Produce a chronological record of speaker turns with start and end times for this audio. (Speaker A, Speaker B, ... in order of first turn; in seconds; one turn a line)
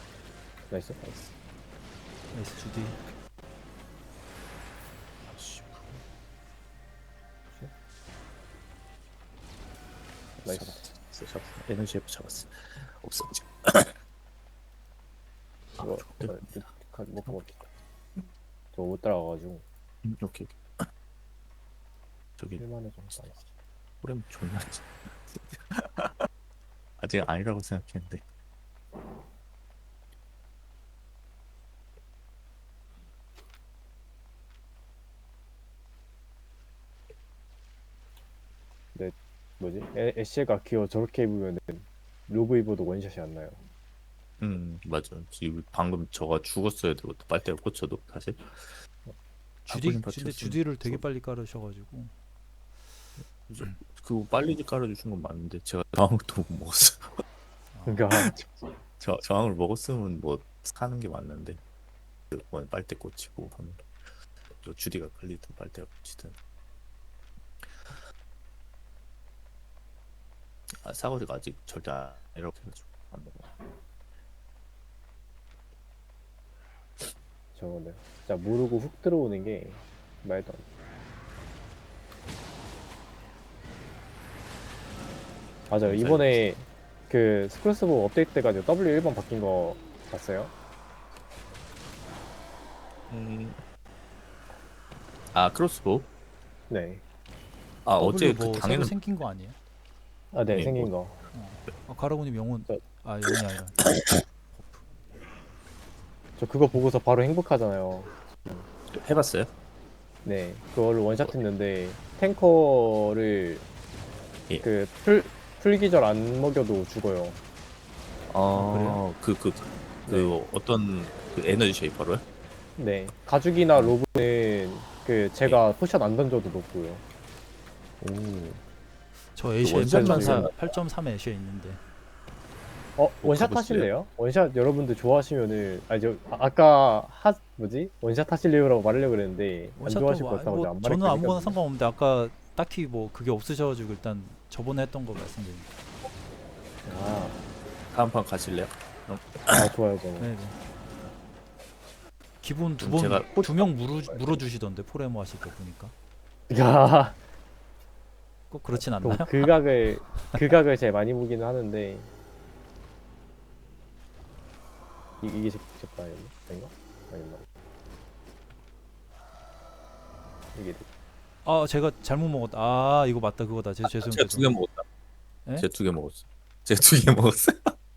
Speaker A: 0.7-1.0
Speaker B: 1.0-1.3
Speaker C: 2.3-3.0
Speaker B: 5.2-6.0
Speaker B: 10.4-14.0
Speaker A: 10.4-10.9
Speaker B: 15.8-17.4
Speaker A: 15.8-17.7
Speaker A: 18.7-19.6
Speaker B: 20.0-20.9
Speaker B: 22.4-22.6
Speaker A: 22.6-23.4
Speaker B: 24.0-26.2
Speaker B: 27.0-28.2
Speaker A: 38.9-43.6
Speaker B: 44.4-48.8
Speaker C: 49.6-52.1
Speaker B: 49.7-51.0
Speaker B: 53.5-57.2
Speaker C: 57.7-58.1
Speaker A: 57.9-58.5
Speaker B: 59.0-61.6
Speaker B: 62.3-63.9
Speaker B: 64.5-66.3
Speaker B: 67.6-68.0
Speaker B: 70.8-73.5
Speaker A: 77.5-80.6
Speaker A: 85.7-90.5
Speaker B: 85.8-86.4
Speaker B: 93.1-93.6
Speaker B: 95.3-96.1
Speaker A: 96.7-97.0
Speaker B: 97.8-99.0
Speaker C: 98.0-99.6
Speaker A: 100.3-101.2
Speaker B: 100.5-100.9
Speaker C: 101.3-103.8
Speaker B: 103.8-104.1
Speaker C: 104.5-104.8
Speaker A: 106.4-108.7
Speaker B: 108.9-109.5
Speaker A: 110.2-113.7
Speaker B: 111.1-111.4
Speaker A: 114.6-117.4
Speaker B: 118.3-122.2
Speaker C: 118.5-119.0
Speaker A: 120.0-120.4
Speaker A: 122.8-127.0
Speaker B: 128.0-128.6
Speaker C: 129.3-131.8
Speaker B: 129.6-130.8
Speaker A: 129.8-130.5
Speaker A: 133.0-141.6
Speaker B: 133.2-133.9
Speaker C: 139.8-145.7
Speaker A: 146.8-147.4
Speaker B: 147.9-149.7
Speaker A: 149.5-150.3
Speaker C: 150.2-150.6
Speaker C: 152.4-155.9
Speaker B: 152.8-153.8
Speaker A: 156.5-157.2
Speaker C: 158.5-159.5
Speaker A: 158.8-162.1
Speaker C: 160.1-160.4
Speaker A: 165.2-167.4
Speaker A: 170.5-170.9
Speaker C: 171.4-174.6
Speaker B: 173.8-174.8
Speaker B: 175.6-177.7